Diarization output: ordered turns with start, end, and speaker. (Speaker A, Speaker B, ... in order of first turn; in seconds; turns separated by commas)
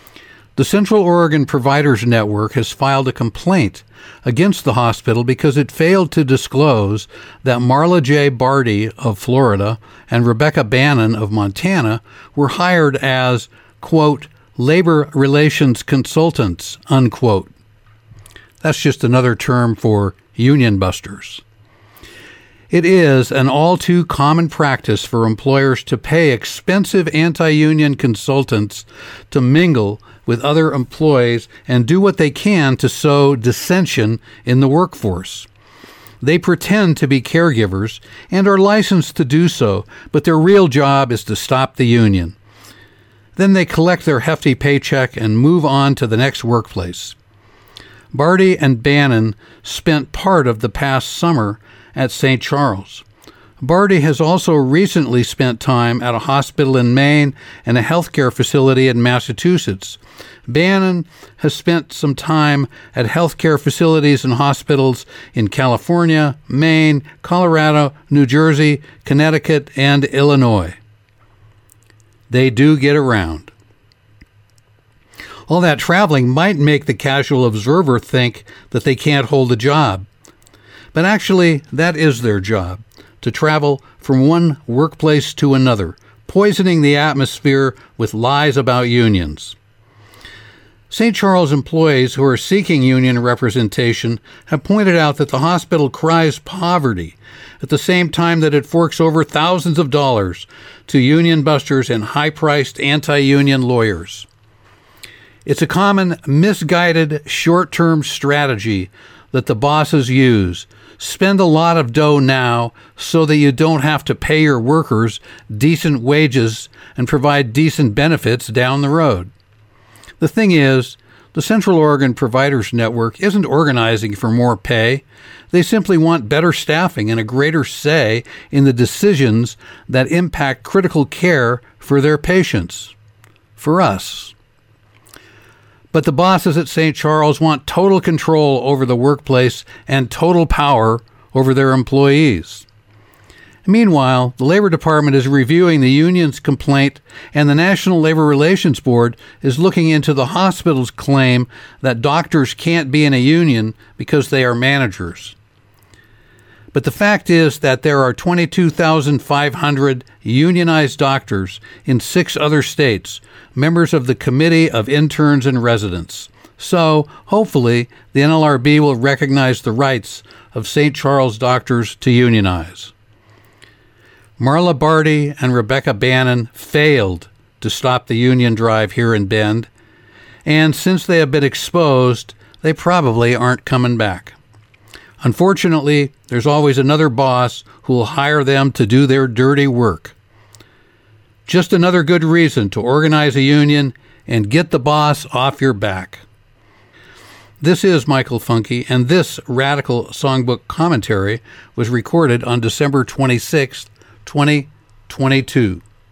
Speaker A: 0.6-17.5, Speaker A: 18.6-21.4, Speaker A: 22.7-35.5, Speaker A: 36.2-42.4, Speaker A: 43.4-47.2, Speaker A: 48.1-53.0, Speaker A: 53.6-70.8, Speaker A: 72.3-73.5, Speaker A: 75.5-80.1, Speaker A: 80.9-89.5, Speaker A: 90.9-104.3, Speaker A: 105.4-119.3, Speaker A: 120.2-132.9, Speaker A: 133.6-134.3, Speaker A: 135.9-142.7, Speaker A: 143.7-155.3, Speaker A: 156.7-172.9, Speaker A: 174.4-179.7, Speaker A: 180.4-184.3, Speaker A: 185.2-190.1, Speaker A: 191.4-196.2, Speaker A: 197.6-205.8